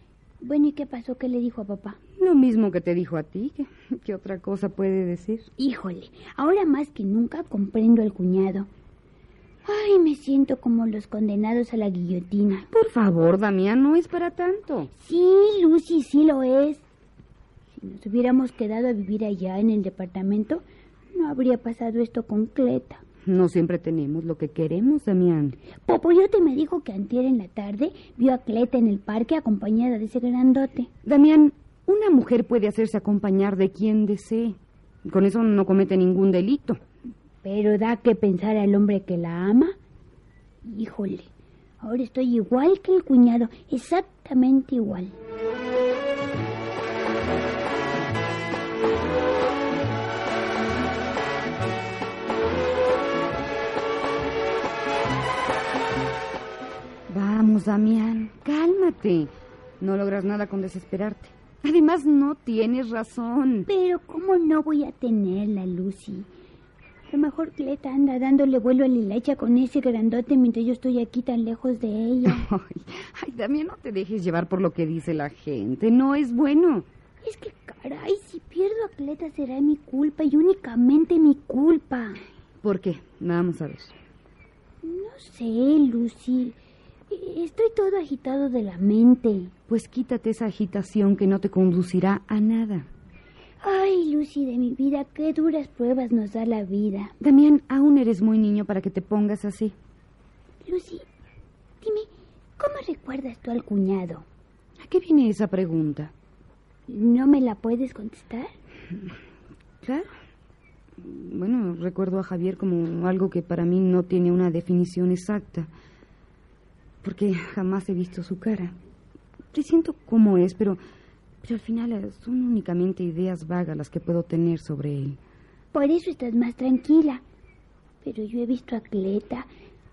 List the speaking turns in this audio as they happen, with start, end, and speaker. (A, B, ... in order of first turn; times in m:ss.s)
0:00.4-0:02.0 A
0:02.2-0:05.5 B
0:05.6-0:08.7 A
0:09.6-0:12.7 A
0:12.7-0:14.9 B
0:14.9-0:16.8 A
0:17.7-0:23.0 A
0:23.2-0:25.6 B
0:25.8-0:30.9 A
0:31.0-0:36.8 B
0:37.4-0:39.8 A
0:40.6-0:41.3 A
0:41.8-0:45.1 A
0:57.1-1:03.7 B
1:03.7-1:06.3 A
1:07.1-1:12.4 A
1:12.2-1:16.9 B
1:17.2-1:22.2 A
1:22.6-1:23.9 B
1:24.8-1:26.6 A
1:27.1-1:29.5 A
1:29.7-1:32.9 B
1:33.6-1:37.1 A
1:37.2-1:39.7 B
1:40.6-1:41.0 A
1:41.8-1:42.1 A
1:42.6-1:44.2 A
1:44.8-1:46.1 B
1:46.9-1:48.5 A
1:49.8-1:50.1 B
1:51.0-1:55.7 B
1:57.0-1:58.8 B
1:59.5-2:00.8 B
2:01.4-2:05.2 B
2:05.7-2:07.2 A
2:08.0-2:09.5 A